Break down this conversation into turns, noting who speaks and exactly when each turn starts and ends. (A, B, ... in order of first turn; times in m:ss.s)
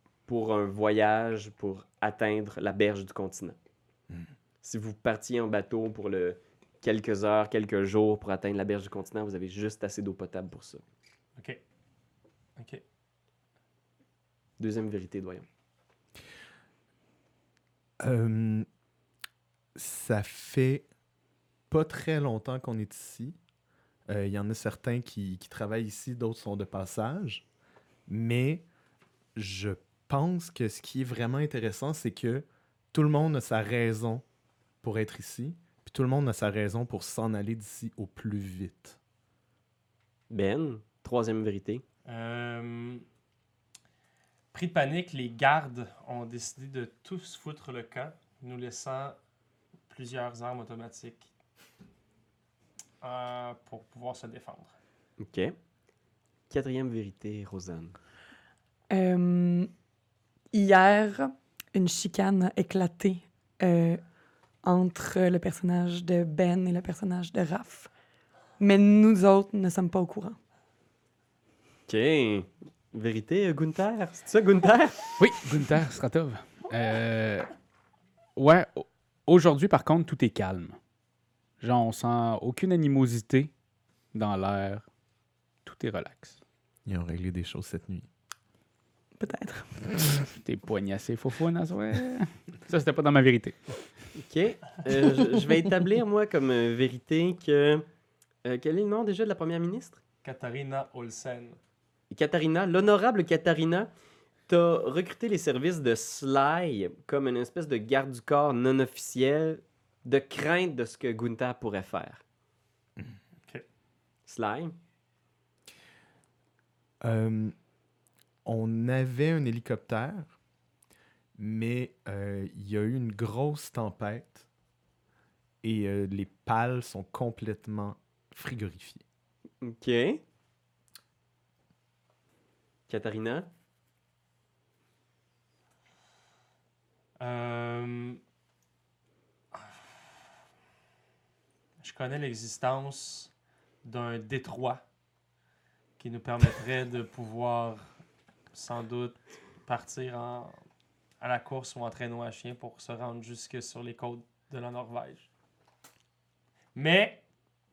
0:00.3-0:03.6 A
0:04.6-0:10.8 A
0:12.6-0:12.8 B
0:14.6-0:15.4 A
0:18.0-0:18.7 C
0:19.8-0:20.9 C
0:21.7-0:23.4 C
0:24.1-0:27.4 C
0:28.1-0:28.7 C
0:29.4-0:34.2 C
0:34.8-0:39.0 C
0:40.3-0:41.8 A
0:42.1-0:43.0 B
0:44.5-0:49.2 B
0:49.9-0:51.3 B
0:53.0-0:54.7 B
0:55.2-0:55.6 A
0:56.5-0:57.9 A
0:58.9-0:59.7 D
1:00.5-1:04.0 D
1:04.6-1:07.9 D
1:08.6-1:10.4 D
1:11.9-1:15.2 A
1:15.2-1:17.5 E
1:18.4-1:20.8 E
1:21.6-1:23.5 E
1:24.1-1:24.8 E
1:25.6-1:26.4 E
1:26.9-1:28.1 C
1:29.2-1:29.9 D
1:30.2-1:33.6 E
1:34.2-1:37.8 A
1:38.4-1:40.0 A
1:40.2-1:41.6 B
1:42.1-1:43.9 A
1:44.5-1:52.2 A
1:54.3-1:54.8 A
1:57.0-1:57.5 C
1:58.4-2:00.4 C
2:01.4-2:04.5 C
2:05.6-2:09.0 C
2:09.6-2:10.2 A
2:12.9-2:13.5 A
2:17.2-2:18.2 B
2:21.8-2:23.3 B
2:23.8-2:24.8 B
2:26.0-2:27.9 B
2:28.5-2:30.6 B
2:31.2-2:35.3 B
2:36.8-2:37.2 B